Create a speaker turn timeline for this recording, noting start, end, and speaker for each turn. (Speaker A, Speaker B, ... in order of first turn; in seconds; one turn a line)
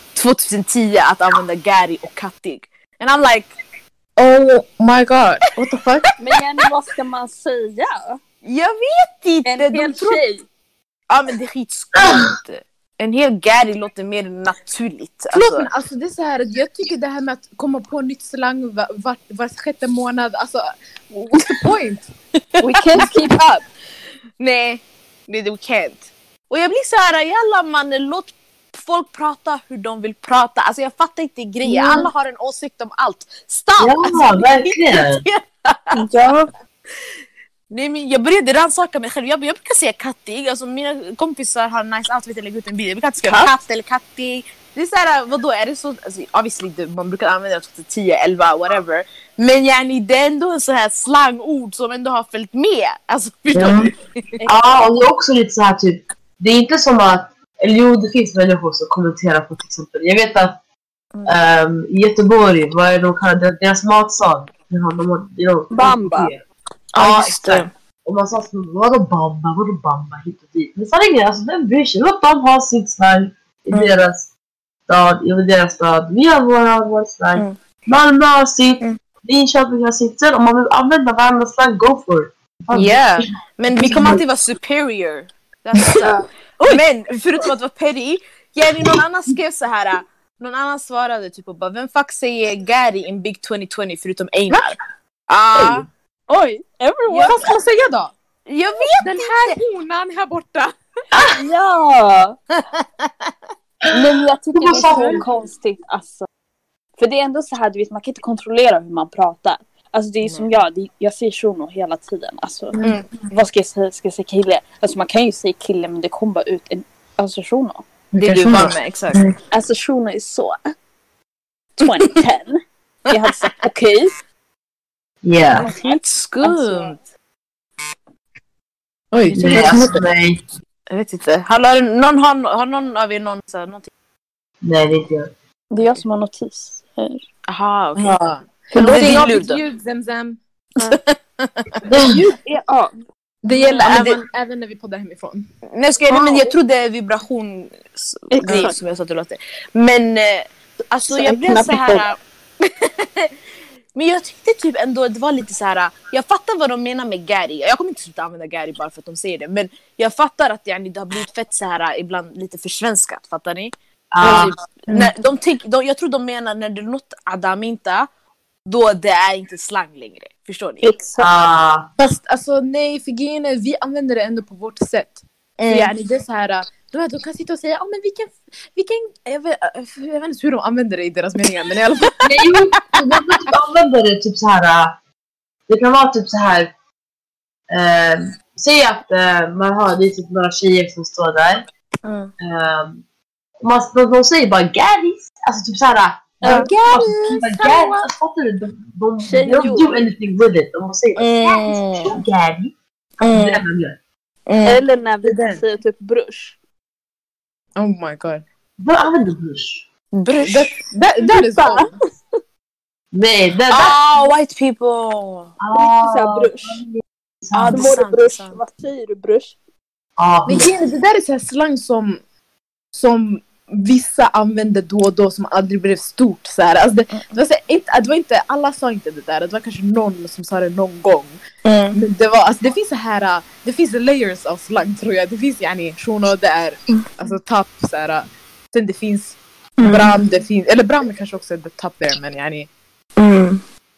Speaker A: 0.1-3.5
Speaker B: 4.2-6.1
Speaker C: 6.2-8.2
Speaker A: 8.4-10.2
Speaker C: 9.4-10.5
Speaker A: 11.1-15.7
Speaker D: 11.9-12.3
Speaker B: 15.3-22.1
Speaker A: 22.6-23.2
Speaker C: 22.6-23.6
Speaker A: 24.4-36.1
Speaker C: 31.7-32.1
Speaker D: 33.8-35.2
Speaker C: 35.9-36.5
Speaker A: 37.7-54.3
Speaker D: 53.5-53.9
Speaker D: 54.5-60.6
Speaker D: 61.3-66.4
Speaker C: 65.7-66.3
Speaker A: 66.9-67.7
Speaker D: 67.0-74.3
Speaker D: 74.9-83.2
Speaker A: 82.7-94.8
Speaker D: 83.8-84.2
Speaker A: 95.3-95.9
Speaker C: 96.3-97.4
Speaker B: 97.2-98.2
Speaker A: 98.5-99.6
Speaker B: 99.0-100.7
Speaker C: 101.3-102.4
Speaker A: 102.5-103.3
Speaker C: 103.9-106.3
Speaker D: 104.5-105.2
Speaker B: 104.8-105.2
Speaker C: 107.0-117.9
Speaker A: 110.2-110.5
Speaker A: 118.2-119.2
Speaker B: 118.2-119.4
Speaker C: 119.5-120.7
Speaker C: 121.8-124.1
Speaker D: 125.2-125.7
Speaker C: 125.6-126.9
Speaker A: 125.6-127.0
Speaker B: 129.1-130.1
Speaker D: 129.3-130.4
Speaker A: 130.9-133.9
Speaker D: 134.6-135.3
Speaker C: 135.7-137.3
Speaker A: 137.5-138.2
Speaker B: 138.0-140.4
Speaker C: 138.7-139.2
Speaker A: 138.7-139.6
Speaker A: 140.8-141.8
Speaker C: 141.9-142.9
Speaker D: 141.9-142.2
Speaker B: 143.4-145.5
Speaker C: 143.5-143.9
Speaker A: 143.8-144.2
Speaker A: 145.7-153.3
Speaker C: 146.1-146.5
Speaker C: 148.3-148.8
Speaker C: 151.1-152.1
Speaker A: 153.9-168.1
Speaker D: 164.1-164.6
Speaker A: 168.7-170.9
Speaker C: 170.8-171.3
Speaker D: 171.2-171.9
Speaker B: 172.0-182.3
Speaker A: 175.6-175.9
Speaker D: 182.2-185.0
Speaker D: 185.7-186.7
Speaker D: 187.7-191.7
Speaker A: 192.0-192.3
Speaker D: 192.4-193.0
Speaker D: 193.6-204.0
Speaker C: 196.4-196.7
Speaker A: 196.4-198.1
Speaker C: 199.2-199.9
Speaker A: 201.2-202.2
Speaker A: 203.2-203.6
Speaker A: 204.5-205.6
Speaker C: 204.7-206.6
Speaker B: 207.8-208.4
Speaker D: 208.8-209.9
Speaker A: 210.1-210.7
Speaker B: 210.4-211.9
Speaker C: 211.2-212.0
Speaker D: 213.1-214.0
Speaker A: 213.7-215.5
Speaker D: 215.6-217.9
Speaker C: 215.7-216.8
Speaker A: 217.5-218.6
Speaker C: 217.7-219.6
Speaker D: 220.2-220.7
Speaker B: 220.5-222.2
Speaker B: 222.9-231.4
Speaker A: 231.7-232.0
Speaker B: 231.9-242.7
Speaker A: 239.8-240.2
Speaker A: 243.2-243.6